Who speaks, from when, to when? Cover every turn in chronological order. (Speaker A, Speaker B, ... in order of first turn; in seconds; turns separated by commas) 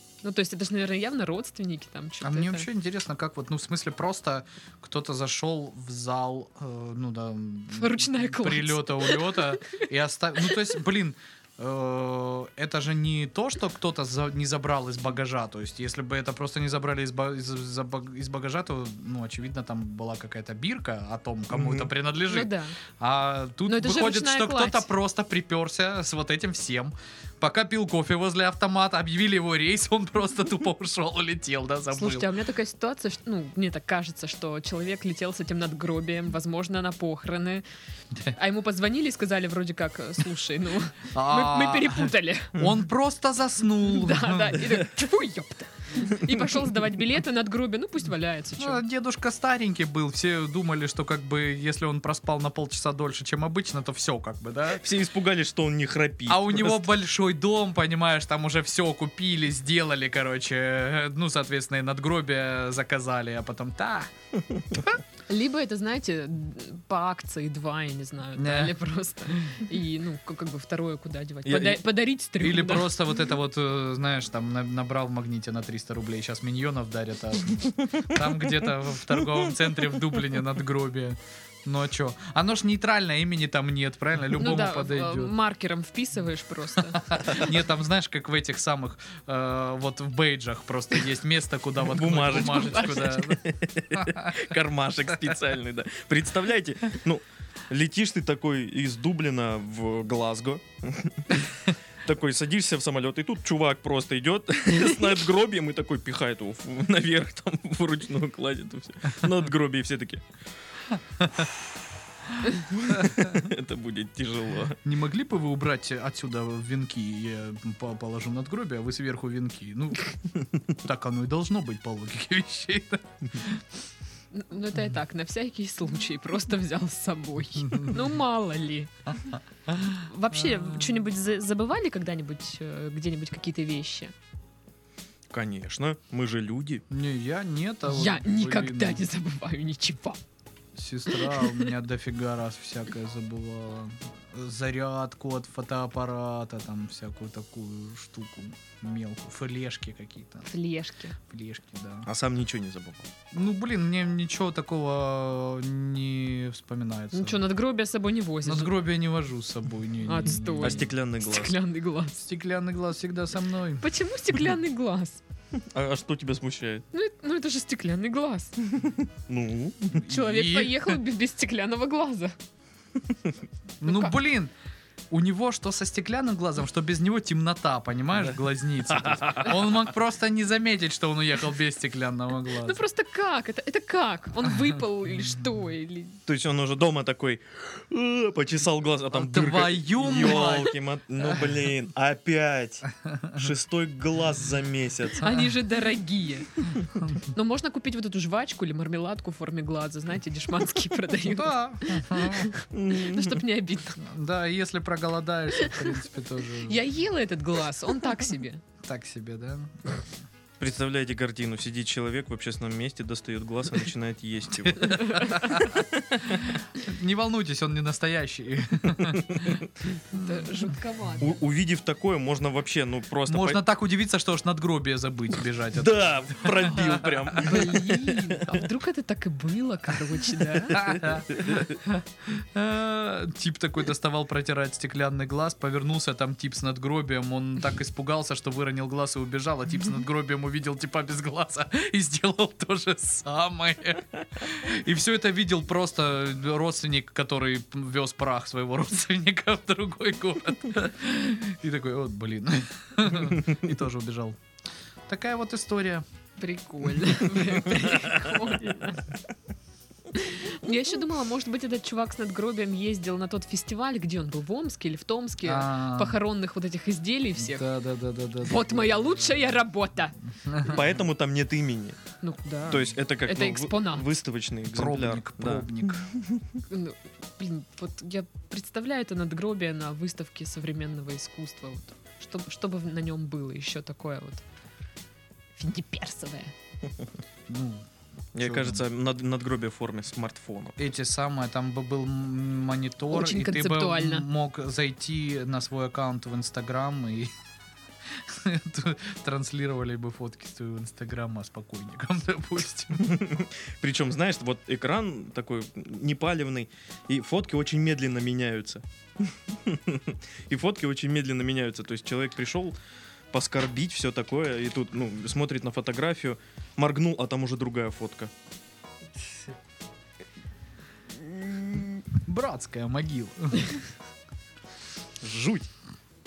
Speaker A: 0.2-2.7, Speaker B: 2.2-32.3, Speaker A: 7.7-9.6, Speaker C: 21.5-21.9, Speaker A: 22.3-22.8, Speaker A: 23.7-24.9, Speaker A: 31.9-37.6, Speaker A: 38.3-42.5, Speaker B: 41.1-44.8, Speaker A: 43.8-48.8, Speaker B: 48.6-54.8, Speaker C: 54.8-56.9, Speaker B: 56.3-64.1, Speaker B: 64.7-65.0, Speaker A: 65.3-73.0, Speaker B: 68.3-68.7, Speaker C: 71.4-71.8, Speaker B: 72.4-85.3, Speaker C: 77.9-78.3, Speaker C: 79.3-79.8, Speaker A: 84.3-87.5, Speaker B: 86.9-93.4, Speaker C: 91.8-110.2, Speaker A: 92.2-93.4, Speaker B: 93.9-94.3, Speaker C: 112.6-114.8, Speaker B: 114.8-123.7, Speaker A: 124.3-129.1, Speaker B: 127.6-128.0, Speaker B: 129.7-130.0, Speaker A: 129.8-134.1, Speaker C: 135.3-136.8, Speaker B: 136.9-139.0, Speaker A: 137.8-140.2, Speaker B: 140.7-150.4, Speaker A: 141.1-141.7, Speaker A: 150.4-151.2, Speaker B: 151.2-152.1, Speaker C: 152.1-153.1, Speaker B: 153.3-157.4, Speaker A: 157.1-158.8, Speaker B: 158.4-160.9, Speaker A: 160.0-162.2, Speaker C: 160.6-161.6, Speaker B: 162.2-163.9, Speaker A: 163.8-165.2, Speaker C: 165.7-166.8, Speaker A: 166.9-168.6, Speaker C: 168.8-170.0, Speaker B: 169.9-170.9, Speaker A: 169.9-172.3, Speaker B: 173.8-174.5, Speaker A: 173.8-174.1, Speaker B: 175.1-182.8, Speaker C: 178.9-179.8, Speaker A: 182.6-186.2, Speaker C: 186.3-195.4, Speaker B: 189.1-190.7, Speaker A: 190.4-190.7, Speaker B: 193.0-193.5, Speaker A: 195.2-196.5, Speaker B: 196.9-197.3, Speaker A: 197.3-204.0, Speaker B: 201.2-202.5, Speaker C: 202.7-203.4, Speaker B: 204.0-206.8, Speaker A: 205.6-205.9, Speaker A: 206.6-208.6, Speaker B: 208.8-210.1, Speaker C: 210.6-216.5, Speaker B: 214.7-219.6, Speaker A: 214.8-215.7, Speaker C: 219.0-219.7, Speaker A: 220.1-221.4, Speaker B: 220.2-220.5, Speaker C: 221.2-223.6, Speaker B: 223.3-227.7, Speaker C: 225.7-228.6, Speaker A: 227.4-231.0, Speaker C: 230.7-231.8, Speaker B: 230.7-254.4, Speaker B: 255.1-256.0, Speaker A: 256.4-259.1, Speaker B: 257.7-258.0, Speaker A: 260.1-267.7, Speaker B: 265.4-266.2, Speaker B: 267.4-269.5, Speaker A: 268.4-270.8, Speaker B: 270.4-270.8, Speaker C: 270.6-272.0, Speaker A: 272.2-274.1, Speaker C: 272.6-276.4, Speaker B: 274.7-276.1, Speaker A: 276.7-284.4, Speaker A: 285.6-286.5, Speaker B: 287.5-288.8, Speaker C: 288.3-290.8, Speaker B: 290.8-297.3, Speaker A: 293.1-294.3, Speaker B: 298.1-303.2, Speaker C: 302.9-312.7, Speaker C: 313.3-318.3, Speaker C: 321.5-321.8, Speaker B: 322.2-323.9, Speaker C: 325.2-325.7